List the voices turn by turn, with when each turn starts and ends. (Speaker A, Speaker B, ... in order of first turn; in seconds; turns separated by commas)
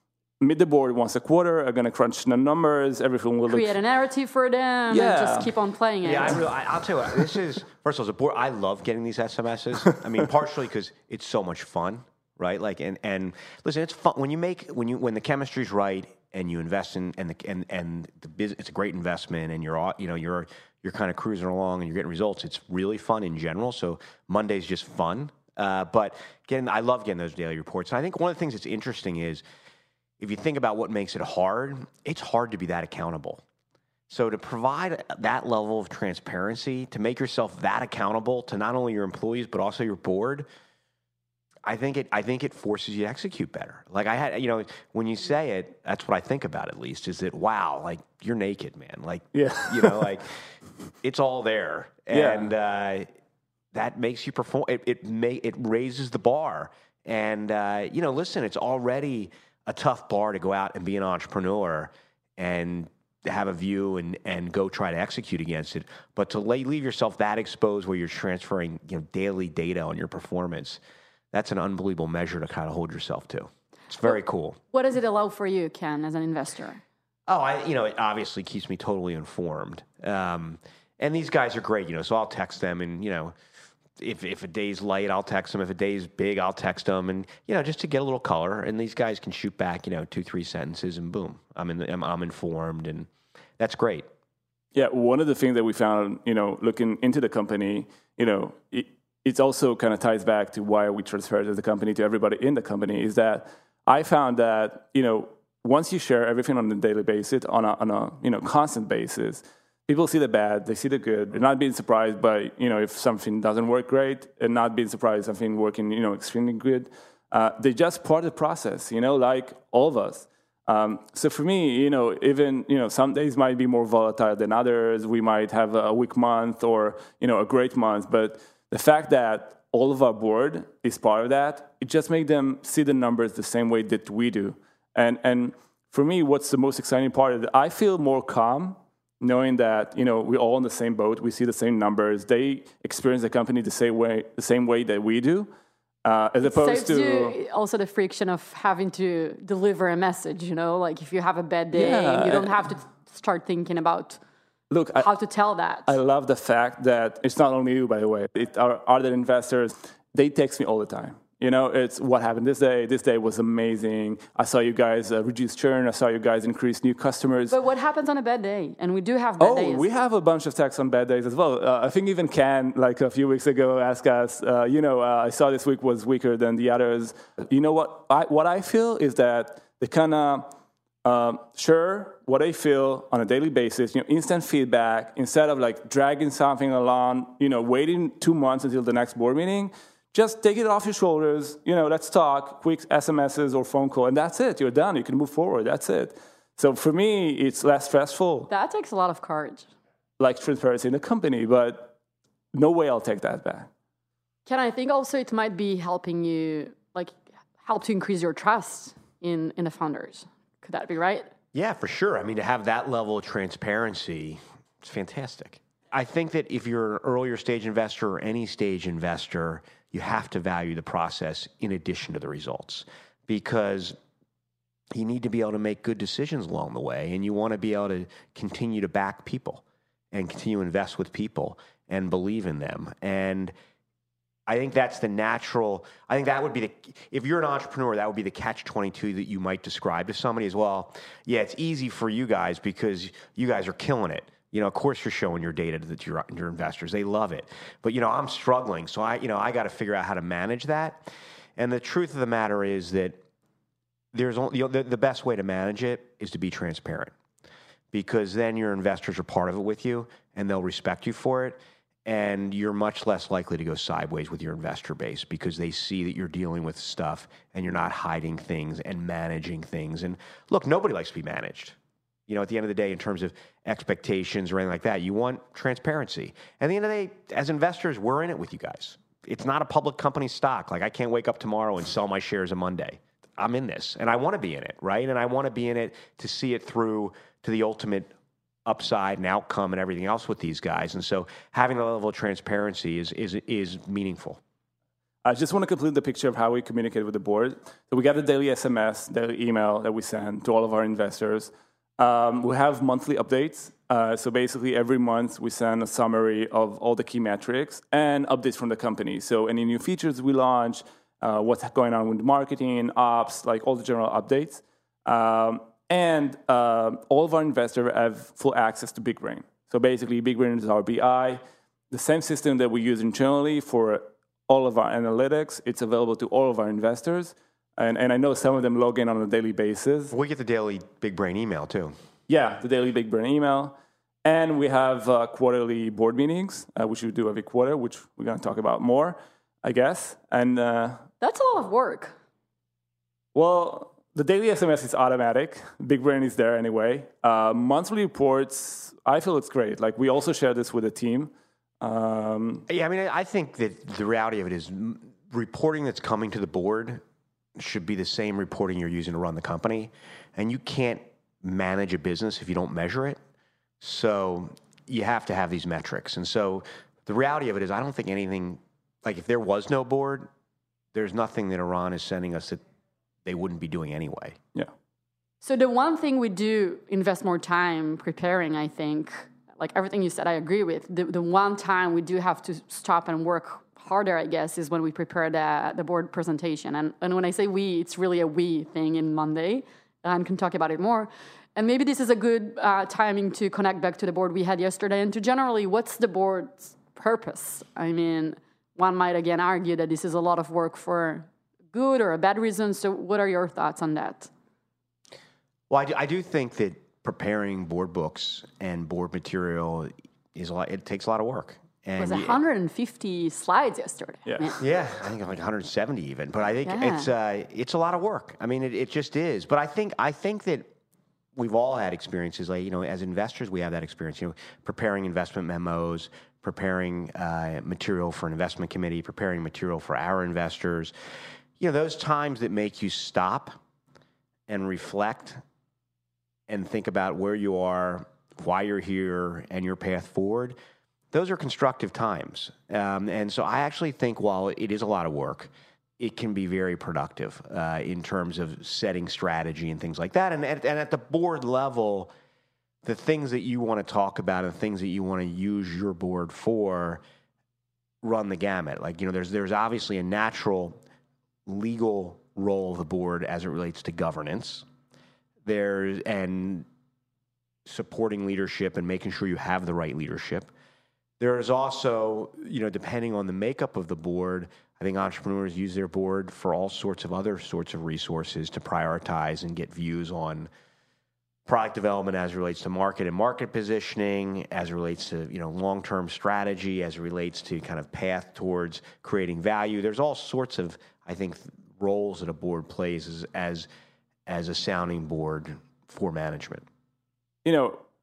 Speaker A: 0.4-3.8, Speaker B: 3.5-6.4, Speaker A: 4.9-5.5, Speaker C: 6.0-29.4, Speaker C: 30.2-33.4, Speaker C: 34.1-40.5, Speaker C: 41.7-50.4, Speaker A: 49.3-50.1, Speaker C: 51.0-53.1, Speaker A: 52.1-52.5, Speaker C: 53.7-70.8, Speaker C: 71.3-74.6, Speaker B: 74.7-76.8, Speaker C: 77.3-83.3, Speaker C: 84.0-94.0, Speaker A: 94.7-145.5, Speaker A: 146.1-147.4, Speaker B: 146.4-154.2, Speaker A: 151.7-152.7, Speaker A: 154.7-155.1, Speaker B: 155.0-155.9, Speaker A: 155.9-167.6, Speaker B: 167.5-169.9, Speaker A: 169.4-180.5, Speaker A: 181.1-198.5, Speaker B: 198.5-199.7, Speaker A: 200.2-201.9, Speaker A: 202.5-203.7, Speaker B: 204.5-211.3, Speaker C: 211.5-224.0, Speaker C: 224.9-233.5, Speaker C: 234.5-251.1, Speaker C: 251.6-253.2, Speaker C: 254.1-257.1, Speaker C: 257.9-288.1, Speaker C: 288.7-294.4, Speaker A: 295.2-330.1, Speaker C: 330.1-331.9, Speaker A: 332.3-341.1, Speaker B: 341.2-342.1, Speaker A: 343.4-352.6, Speaker C: 352.7-357.0, Speaker C: 357.6-363.2, Speaker C: 363.8-370.3, Speaker C: 370.9-372.6, Speaker C: 373.2-374.4, Speaker B: 375.4-404.3, Speaker C: 405.7-412.4, Speaker B: 412.0-414.6, Speaker A: 414.3-414.5, Speaker C: 414.6-420.7, Speaker B: 416.6-417.1, Speaker C: 421.4-430.9, Speaker C: 431.6-433.6, Speaker C: 434.5-435.4, Speaker C: 436.5-440.6, Speaker C: 441.1-452.1, Speaker C: 452.8-457.0, Speaker C: 458.0-460.8, Speaker C: 461.5-464.6, Speaker C: 465.4-466.7, Speaker C: 467.7-470.5, Speaker C: 471.2-480.5, Speaker C: 481.5-493.7, Speaker C: 494.3-496.7, Speaker A: 497.4-497.8